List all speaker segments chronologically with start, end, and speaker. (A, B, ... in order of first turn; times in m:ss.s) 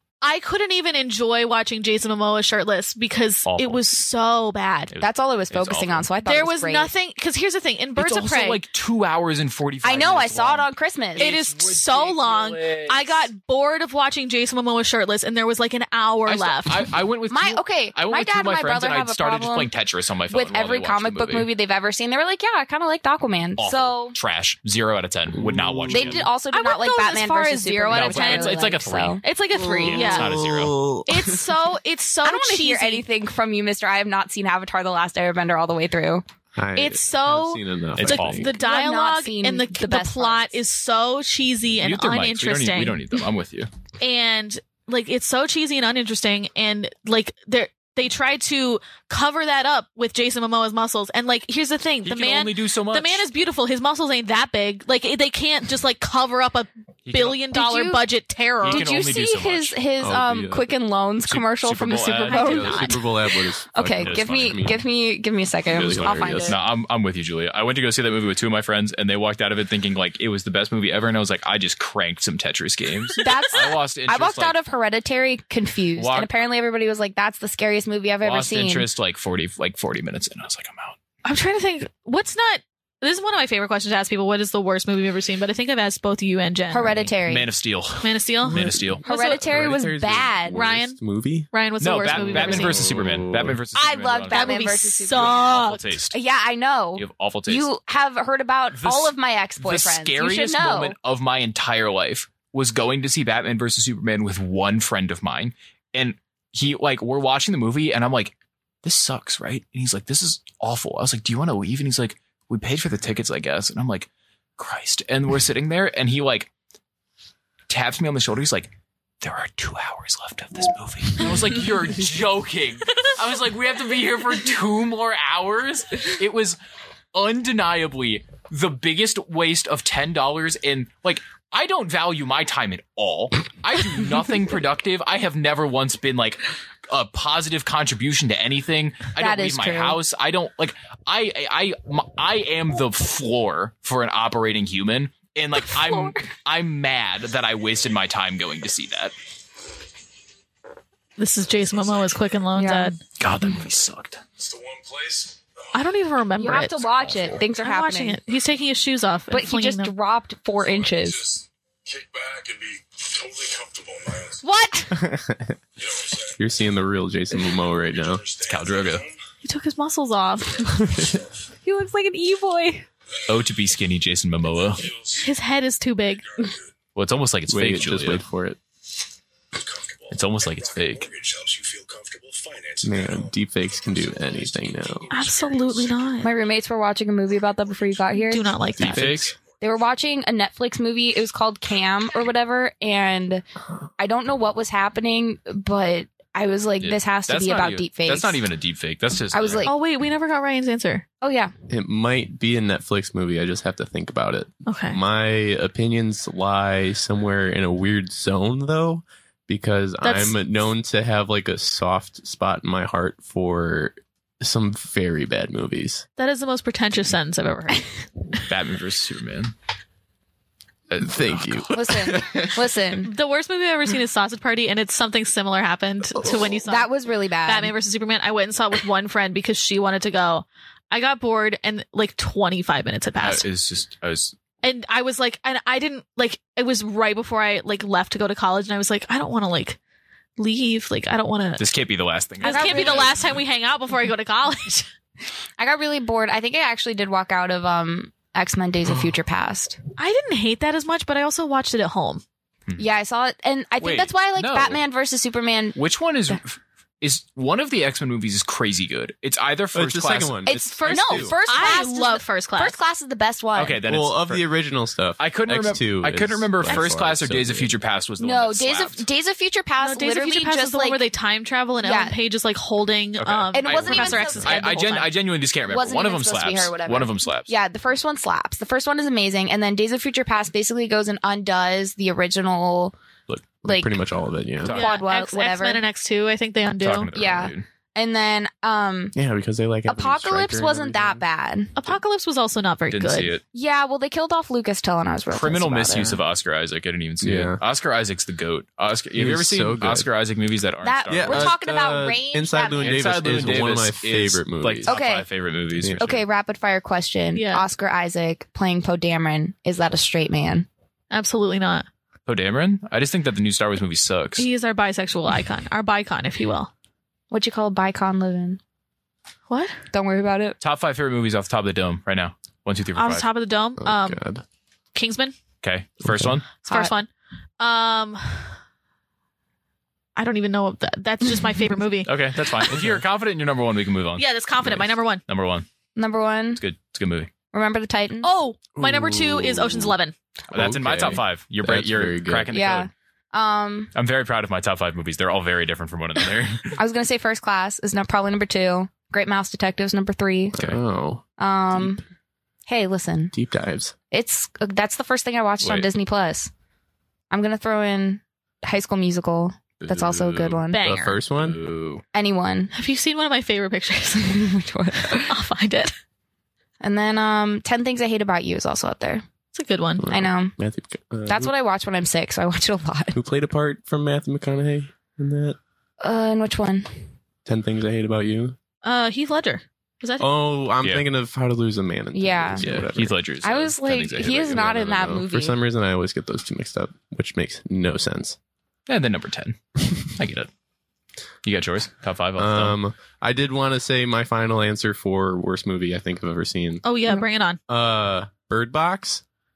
0:00.2-0:04.9 A
0:03.4-0:03.9 B
0:04.9-0:06.0 B
0:05.0-0:06.9 C
0:06.2-0:08.6 A
0:08.0-0:13.3 B
0:09.8-0:11.3 C
0:11.2-0:16.9 A
0:16.2-0:21.5 B
0:17.3-0:19.7 C
0:20.3-0:24.2 C
0:23.6-0:26.3 B
0:25.3-0:26.2 D
0:25.9-0:30.1 C
0:26.5-0:28.6 A
0:27.9-0:29.2 B
0:29.2-0:30.4 A
0:29.6-0:31.4 D
0:29.8-0:30.8 B
0:31.1-0:33.0 A
0:32.2-0:36.2 C
0:36.6-0:38.5 D
0:36.7-0:43.1 A
0:37.9-0:38.5 B
0:38.5-0:40.6 C
0:41.8-0:43.7 B
0:44.0-0:58.9 A
0:52.0-0:53.2 B
0:57.0-0:57.4 B
0:57.5-0:58.0 C
0:58.6-0:59.8 B
0:58.6-1:06.6 C
1:00.0-1:00.7 D
1:01.3-1:02.6 B
1:02.3-1:03.0 A
1:02.4-1:04.8 D
1:03.8-1:04.7 B
1:05.7-1:06.6 D
1:05.7-1:14.6 B
1:13.2-1:18.9 C
1:16.0-1:16.3 B
1:18.2-1:21.0 B
1:21.2-1:27.1 A
1:26.7-1:27.5 C
1:27.2-1:29.0 B
1:28.0-1:29.5 A
1:28.4-1:33.6 D
1:29.0-1:30.6 C
1:30.5-1:31.0 A
1:31.5-1:32.9 A
1:31.8-1:34.6 B
1:33.7-1:41.0 C
1:34.3-1:36.0 A
1:35.1-1:36.2 B
1:37.0-1:37.7 B
1:38.7-1:56.5 B
1:57.7-2:06.6 B
2:07.1-2:29.1 B
2:19.2-2:20.0 C
2:25.7-2:26.2 C
2:31.2-2:33.0 A
2:31.7-2:32.3 E
2:32.6-2:33.0 C
2:33.2-2:34.2 B
2:34.4-2:35.8 E
2:35.7-2:36.8 A
2:36.4-2:38.2 C
2:36.5-2:37.4 B
2:37.6-2:39.9 A
2:39.3-2:41.2 C
2:40.6-2:44.4 E
2:44.4-2:44.9 A
2:44.6-2:44.9 C
2:44.9-2:45.6 D
2:45.8-2:46.4 E
2:46.4-2:48.2 D
2:47.5-2:49.2 E
2:48.4-2:49.0 B
2:49.4-2:50.7 A
2:50.6-2:51.5 E
2:50.8-2:51.2 D
2:51.6-2:52.8 C
2:53.3-2:54.8 B
2:54.4-2:55.3 E
2:55.2-2:56.2 A
2:56.2-2:56.7 E
2:56.9-2:58.2 B
2:57.5-2:58.6 D
2:59.5-3:06.0 E
3:00.1-3:01.1 B
3:02.8-3:05.1 D
3:05.1-3:06.3 A
3:06.2-3:08.5 C
3:07.6-3:08.0 E
3:08.1-3:09.0 A
3:08.8-3:09.3 D
3:08.8-3:09.4 B
3:09.1-3:09.6 E
3:09.6-3:13.4 C
3:14.0-3:18.4 C
3:16.8-3:19.7 B
3:19.3-3:19.7 C
3:19.6-3:21.0 A
3:21.2-3:21.5 C
3:21.7-3:36.0 D
3:24.6-3:25.0 A
3:30.0-3:30.4 A
3:36.2-3:38.0 A
3:38.5-3:39.5 B
3:40.9-3:42.0 B
3:41.0-3:42.6 D
3:41.7-3:43.1 C
3:43.0-3:46.9 A
3:46.2-3:46.5 D
3:46.6-3:47.7 C
3:47.4-3:53.4 A
3:53.2-3:54.4 B
3:54.6-3:59.8 A
4:00.4-4:01.6 A
4:01.6-4:03.2 B
4:02.4-4:04.9 A
4:02.4-4:03.2 C
4:05.6-4:09.8 C
4:10.0-4:12.2 A
4:12.8-4:15.8 C
4:13.8-4:14.8 B
4:15.8-4:20.4 B
4:19.7-4:21.4 D
4:20.4-4:23.8 C
4:20.6-4:22.7 A
4:23.6-4:24.5 B
4:23.8-4:27.8 D
4:25.2-4:29.0 B
4:28.2-4:31.0 C
4:29.8-4:35.1 A
4:31.8-4:32.2 C
4:33.2-4:37.5 B
4:33.5-4:35.1 C
4:35.6-4:42.9 C
4:43.6-4:44.7 D
4:43.6-4:44.0 C
4:44.6-4:45.0 B
4:44.7-4:45.8 C
4:44.7-4:47.1 A
4:46.8-4:47.6 B
4:47.1-4:49.1 C
4:49.1-4:51.2 D
4:49.9-4:51.7 C
4:51.7-4:53.3 A
4:52.9-4:53.4 B
4:53.5-4:56.2 C
4:55.3-5:01.6 B
4:57.2-4:57.6 D
4:59.1-5:00.1 D
5:00.8-5:03.0 C
5:01.1-5:05.0 D
5:02.8-5:06.2 B
5:04.9-5:05.3 C
5:05.8-5:06.1 D
5:06.0-5:10.7 C
5:07.3-5:07.6 A
5:11.1-5:11.8 A
5:12.3-5:14.5 B
5:14.4-5:16.7 A
5:17.3-5:18.6 C
5:19.5-5:19.7 A
5:19.9-5:20.6 C
5:20.6-5:23.2 B
5:23.0-5:24.2 A
5:23.8-5:24.4 D
5:24.9-5:25.3 A
5:25.6-5:26.4 B
5:26.0-5:26.4 D
5:26.6-5:27.1 A
5:26.7-5:26.9 C
5:27.6-5:28.5 A
5:30.2-5:32.1 A
5:32.0-5:35.6 B
5:32.7-5:33.0 D
5:34.2-5:35.2 A
5:36.0-5:36.6 C
5:36.6-5:37.3 B
5:37.5-5:38.3 C
5:38.2-5:40.1 A
5:38.8-5:40.0 D
5:40.5-5:42.9 B
5:40.5-5:42.5 D
5:42.5-5:43.9 C
5:43.9-5:46.7 B
5:46.8-5:50.6 C
5:50.6-5:51.2 D
5:51.4-5:52.0 C
5:52.7-5:53.3 C
5:53.3-5:53.9 D
5:54.1-5:56.5 C
5:55.6-5:55.9 B
5:57.3-6:00.8 C
5:59.8-6:00.6 B
6:00.7-6:01.2 A
6:00.8-6:01.6 D
6:01.4-6:02.0 B
6:02.1-6:02.7 C
6:02.7-6:04.5 A
6:04.2-6:05.3 C
6:05.2-6:05.9 A
6:06.8-6:09.2 C
6:09.5-6:10.0 A
6:10.0-6:11.5 D
6:10.1-6:10.5 C
6:11.3-6:13.2 C
6:13.1-6:15.6 D
6:16.0-6:17.0 C
6:17.4-6:18.6 D
6:18.8-6:20.3 A
6:20.2-6:23.2 D
6:22.1-6:22.7 C
6:22.6-6:24.7 B
6:23.4-6:25.6 C
6:24.5-6:28.4 D
6:28.9-6:30.5 B
6:31.4-6:32.8 B
6:32.4-6:36.8 D
6:36.8-6:37.6 A
6:37.7-6:39.2 D